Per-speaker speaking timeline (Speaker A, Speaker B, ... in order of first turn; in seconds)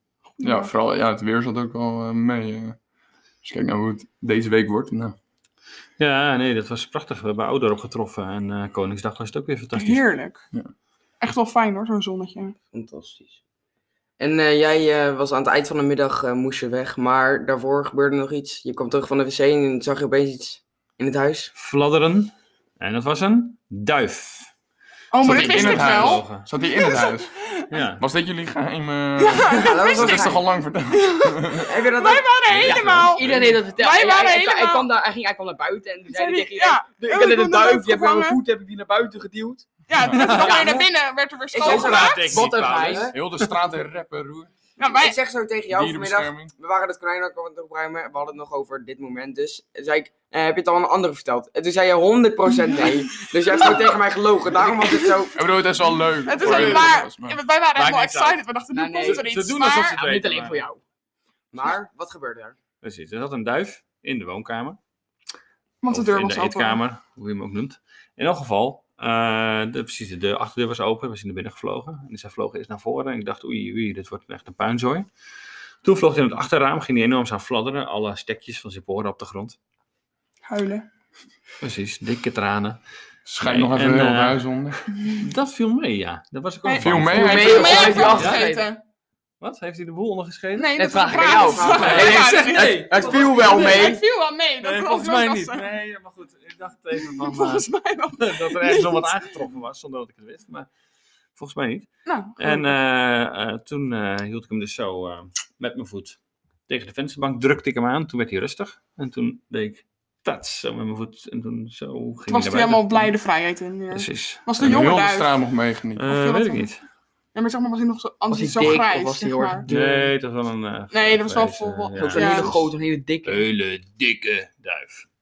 Speaker A: 0.4-0.7, 9.7-10.4, 11.2-12.6, 25.1-27.7, 29.2-34.9, 36.1-38.4, 39.9-42.4, 44.8-45.1, 53.5-53.9, 54.9-55.3, 56.2-60.0, 65.8-66.8, 80.5-80.8, 86.6-88.8, 90.5-95.7, 97.0-99.3, 102.0-102.7, 112.3-115.4, 116.1-116.7, 117.3-119.7, 120.9-122.6
Speaker B: 0.4-2.8, 3.4-5.2, 25.2-27.3, 28.0-31.7, 40.0-40.4, 43.1-44.5, 45.7-46.5, 55.3-57.4, 83.2-84.8, 86.8-88.0, 114.6-116.1
Speaker C: 6.0-10.0, 21.6-24.5, 25.2-26.5, 27.7-28.0, 32.5-33.6, 40.1-40.9, 41.6-43.5, 56.4-56.8, 57.7-58.4, 59.0-60.6, 62.8-64.8, 65.9-75.1, 75.8-79.6, 81.6-82.8, 83.4-84.5, 85.1-88.4, 89.4-93.9, 94.6-100.7, 101.3-113.1, 113.9-114.9, 116.0-116.8, 119.7-122.7, 123.2-125.0
Speaker D: 12.7-13.3, 14.2-21.5, 29.6-30.4, 31.6-32.3, 41.5-43.1, 44.9-55.5, 61.5-62.5, 87.5-88.2, 91.2-94.0
Speaker E: 32.6-39.6, 41.6-43.1, 58.7-60.8, 87.2-88.7, 90.8-94.0, 118.3-120.1, 122.0-123.5